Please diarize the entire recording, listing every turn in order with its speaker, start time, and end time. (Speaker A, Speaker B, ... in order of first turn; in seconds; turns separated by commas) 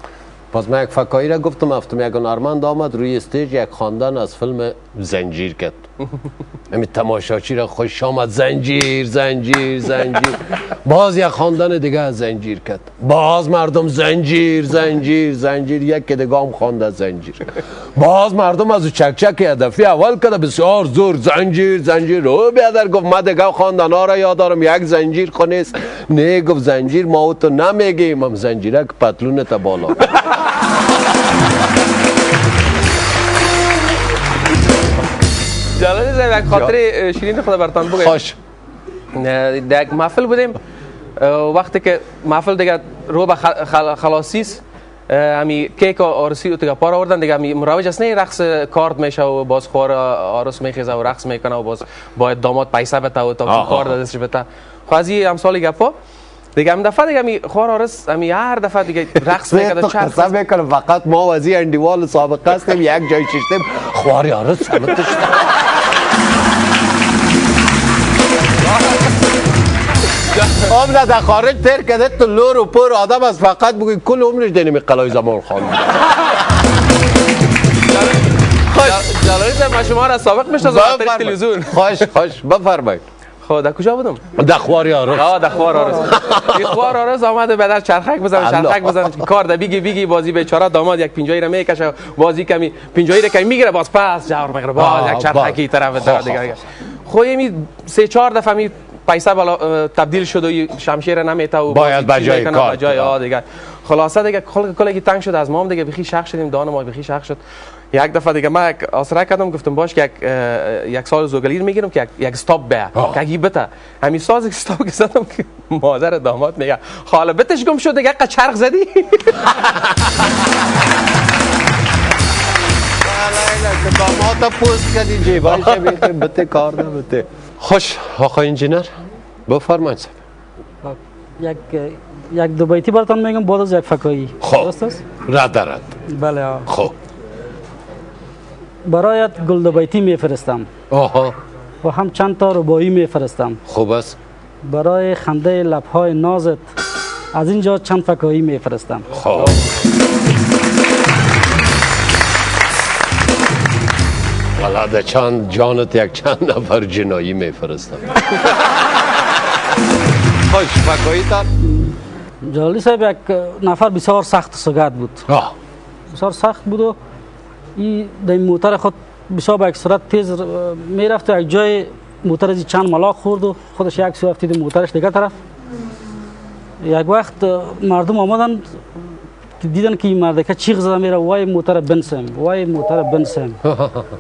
Speaker A: 0.5-5.8, Speaker A: 6.7-30.3, Speaker B: 35.8-38.2, Speaker A: 37.9-38.4, Speaker B: 39.1-40.6, Speaker B: 41.2-56.0, Speaker A: 53.5-54.0, Speaker B: 56.6-60.3, Speaker A: 59.5-65.8, Speaker A: 70.5-76.4, Speaker B: 78.7-82.1, Speaker A: 80.6-83.0, Speaker B: 83.5-84.2, Speaker A: 84.3-86.8, Speaker B: 85.1-107.4, Speaker A: 88.4-89.2, Speaker A: 94.8-96.6, Speaker A: 101.7-103.2, Speaker B: 107.9-119.4, Speaker A: 119.5-120.1, Speaker A: 123.0-128.9, Speaker A: 129.5-130.2, Speaker C: 130.8-135.1, Speaker A: 134.4-134.7, Speaker A: 135.2-136.0, Speaker C: 136.1-136.7, Speaker A: 136.7-137.0, Speaker C: 138.9-140.7, Speaker A: 140.9-141.3, Speaker C: 141.8-143.6, Speaker A: 143.7-144.2, Speaker C: 144.6-146.7, Speaker C: 147.3-149.1, Speaker A: 149.1-149.6, Speaker A: 154.6-158.7, Speaker A: 160.4-161.5, Speaker C: 162.4-165.3, Speaker A: 165.3-165.6, Speaker C: 166.1-167.0, Speaker C: 167.8-175.4, Speaker C: 176.8-179.1, Speaker C: 179.6-183.6, Speaker A: 183.7-184.1